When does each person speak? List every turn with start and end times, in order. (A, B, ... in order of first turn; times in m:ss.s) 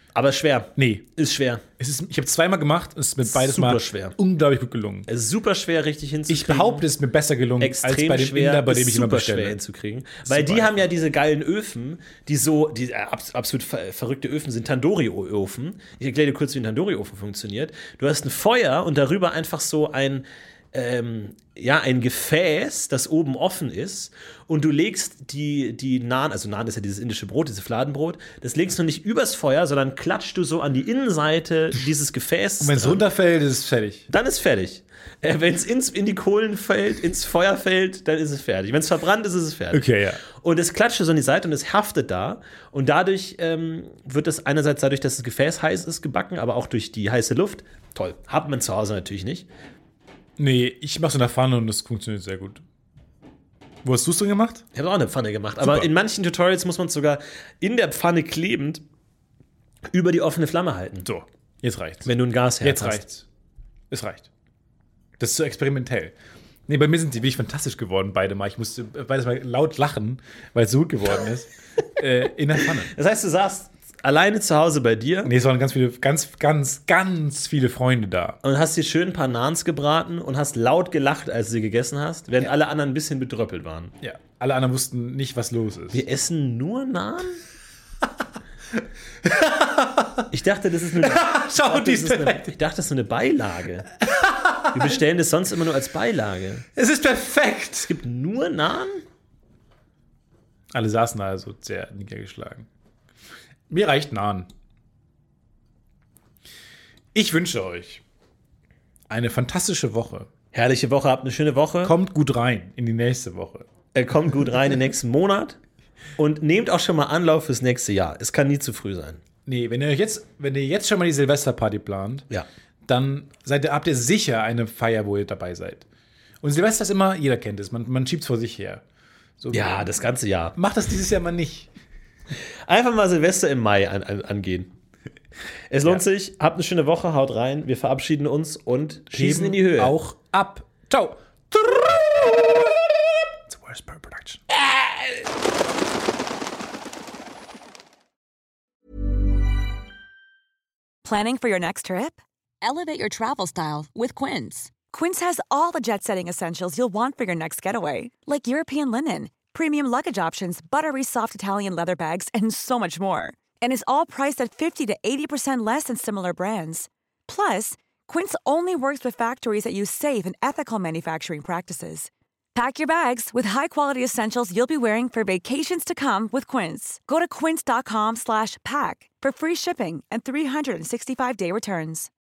0:00.1-0:01.6 A
0:00.8-0:01.0 B
0:01.8-0:05.1 B
0:03.2-0:04.2 A
0:05.1-0:06.9 A
0:06.3-0:09.6 B
0:07.6-0:33.0 A
0:10.2-0:10.9 B
0:32.6-0:34.1 B
0:34.1-0:49.5 A
0:39.7-0:40.2 B
0:50.4-0:52.6 B
0:53.8-0:54.6 B
0:54.7-0:58.8 A
0:55.6-0:55.9 B
0:59.9-1:01.1 A
1:01.0-1:03.2 B
1:02.0-1:03.0 A
1:03.9-1:04.3 B
1:05.2-1:06.1 B
1:06.7-1:12.9 B
1:12.9-1:15.3 A
1:15.2-1:18.4 B
1:18.4-1:23.9 A
1:24.0-1:26.0 B
1:25.9-1:27.4 A
1:29.2-1:30.2 B
1:30.3-1:33.9 A
1:31.0-1:32.5 B
1:34.0-1:34.9 B
1:34.7-1:36.6 A
1:36.7-1:37.9 B
1:37.8-1:39.0 A
1:40.7-1:42.7 B
1:43.7-1:44.5 B
1:47.1-1:48.0 B
1:49.1-1:50.3 B
1:50.5-1:51.9 A
1:51.8-1:53.7 B
1:53.9-1:55.6 A
1:56.2-1:59.2 A
1:59.4-2:02.3 B
2:02.8-2:05.8 B
2:06.4-2:08.8 B
2:09.4-2:09.9 B
2:09.5-2:10.5 A
2:10.5-2:11.7 B
2:12.7-2:14.7 A
2:15.7-2:20.0 A
2:19.1-2:22.3 B
2:23.5-2:24.4 B
2:31.0-3:02.1 C